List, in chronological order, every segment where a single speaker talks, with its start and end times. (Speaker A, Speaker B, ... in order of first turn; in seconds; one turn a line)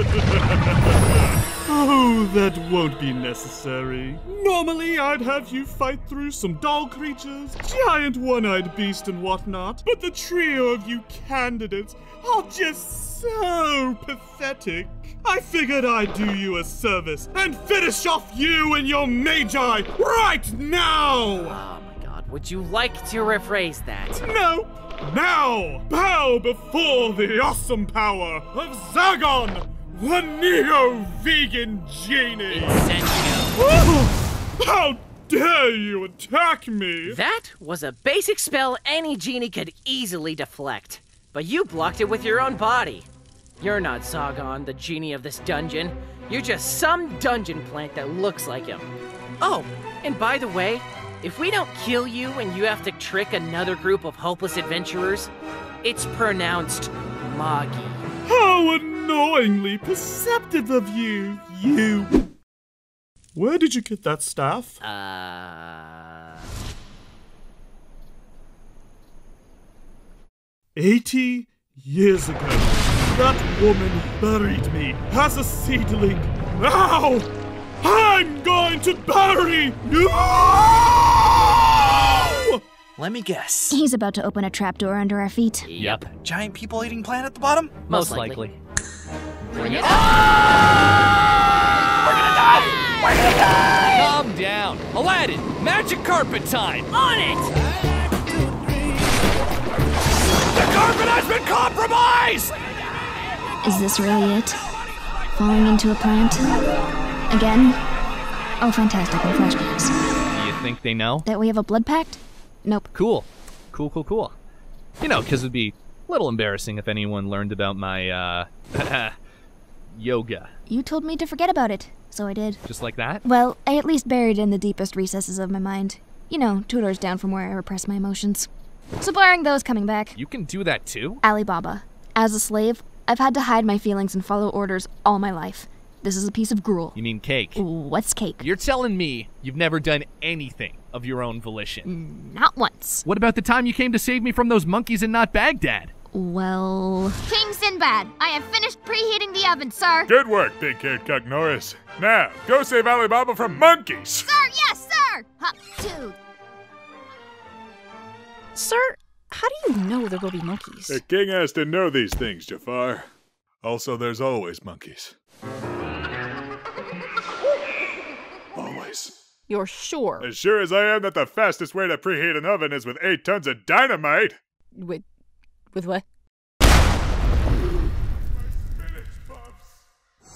Speaker A: 1.7-21.6
Speaker B: 21.3-24.2
Speaker A: 24.2-32.9
Speaker B: 32.5-33.5
Speaker A: 33.6-37.2
Speaker B: 37.0-43.1
Speaker B: 43.6-48.9
Speaker B: 49.4-55.3
Speaker B: 55.8-58.0
Speaker A: 58.3-62.1
Speaker A: 63.4-64.8
Speaker B: 64.8-66.4
Speaker A: 70.8-77.3
Speaker A: 77.8-82.6
Speaker C: 83.0-83.8
Speaker D: 83.7-85.7
Speaker B: 85.7-86.0
Speaker E: 85.8-86.1
Speaker C: 86.2-87.8
Speaker B: 87.9-88.5
Speaker E: 87.9-88.6
Speaker B: 89.5-90.0
Speaker E: 89.6-90.1
Speaker C: 92.1-93.7
Speaker B: 92.6-93.7
Speaker E: 93.9-96.9
Speaker B: 96.9-97.5
Speaker E: 98.3-98.9
Speaker E: 100.5-102.5
Speaker D: 103.6-104.6
Speaker D: 105.3-106.6
Speaker D: 107.3-107.8
Speaker D: 108.6-109.9
Speaker E: 110.3-111.3
Speaker D: 111.2-112.9
Speaker E: 112.9-114.3
Speaker E: 115.0-119.1
Speaker E: 119.9-120.5
Speaker D: 120.7-122.6
Speaker E: 122.7-123.2
Speaker D: 123.2-128.5
Speaker D: 129.0-130.2
Speaker E: 130.2-131.2
Speaker D: 131.2-137.0
Speaker E: 136.9-137.6
Speaker D: 137.6-138.5
Speaker E: 138.4-141.9
Speaker D: 141.9-143.0
Speaker E: 143.0-145.9
Speaker D: 146.1-150.1
Speaker F: 150.1-154.3
Speaker D: 154.2-156.2
Speaker G: 158.6-161.0
Speaker F: 160.9-163.1
Speaker F: 163.6-165.2
Speaker F: 168.6-169.2
Speaker G: 169.5-170.3
Speaker F: 170.2-174.4
Speaker G: 174.8-175.0
Speaker G: 175.7-176.0